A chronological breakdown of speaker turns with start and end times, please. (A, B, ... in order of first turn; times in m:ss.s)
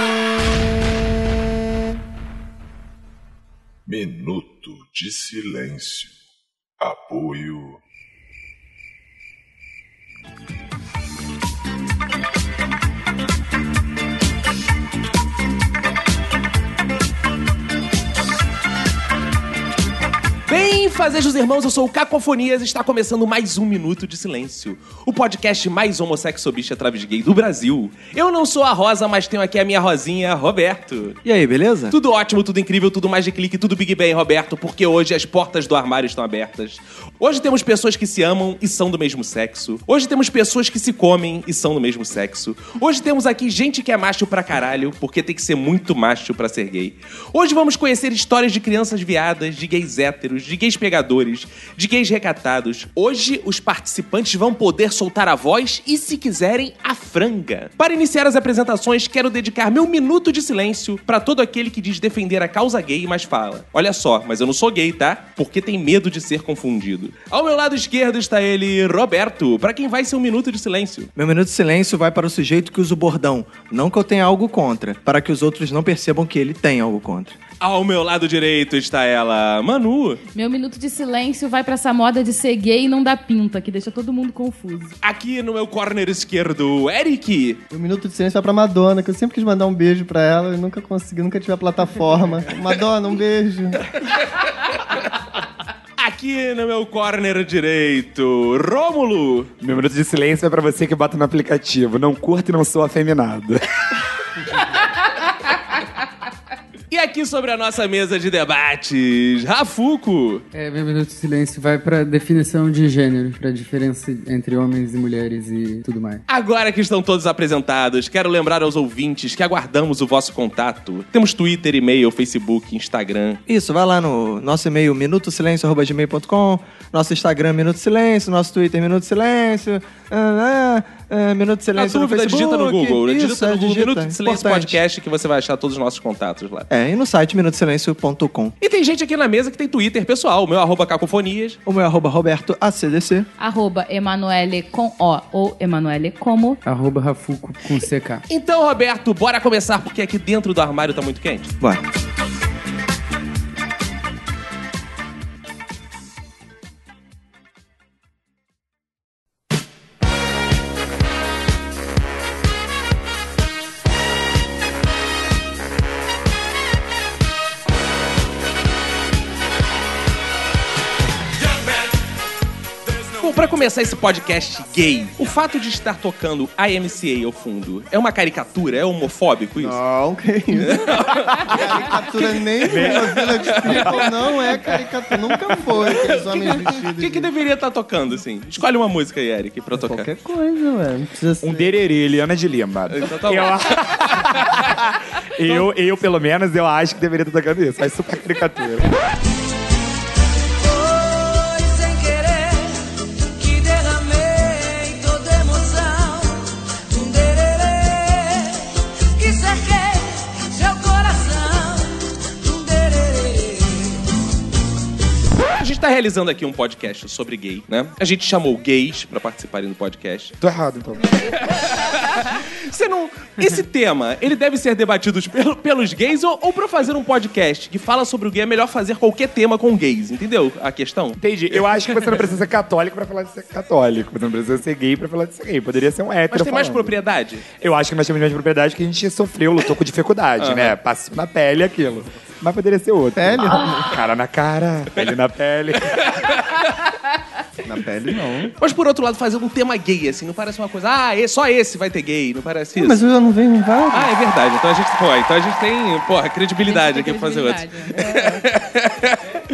0:03.8-0:06.2 A
0:06.8-0:07.8 A
0:20.5-0:31.2 B
0:31.2-0:31.9 C
0:31.9-1:11.1 B
1:11.1-1:17.4 C
1:17.6-1:20.2 B
1:20.3-1:25.0 D
1:25.0-1:27.6 B
1:27.7-1:33.9 E
1:36.0-1:39.5 B
1:39.6-1:43.6 F
1:46.9-1:50.4 B
1:50.5-1:56.2 G
1:56.3-2:03.4 B
2:03.5-2:14.8 C
2:11.7-2:16.7 B
2:16.7-2:18.5 C
2:18.6-2:21.6 B
2:21.6-2:23.3 C
2:23.4-2:26.6 D
2:26.6-2:28.2 G
2:28.3-2:31.5 B
2:53.2-2:59.8 B
2:59.6-3:07.3 E
3:00.5-3:04.1 B
3:02.6-3:03.9 F
3:05.7-3:10.1 B
3:09.7-3:11.8 E
3:11.4-3:18.9 F
3:12.9-3:14.5 B
3:20.5-3:34.0 H
3:35.6-3:40.3 B
3:40.4-3:41.2 F
3:41.2-3:52.2 B
3:51.2-3:57.0 F
3:56.3-3:57.4 B
3:57.6-4:06.2 F
4:00.4-4:00.7 B
4:03.2-4:03.9 E
4:07.6-4:08.5 E
4:08.6-4:13.0 B
4:12.8-4:14.1 E
4:13.9-4:19.2 B
4:16.6-4:17.9 D
4:17.9-4:18.4 E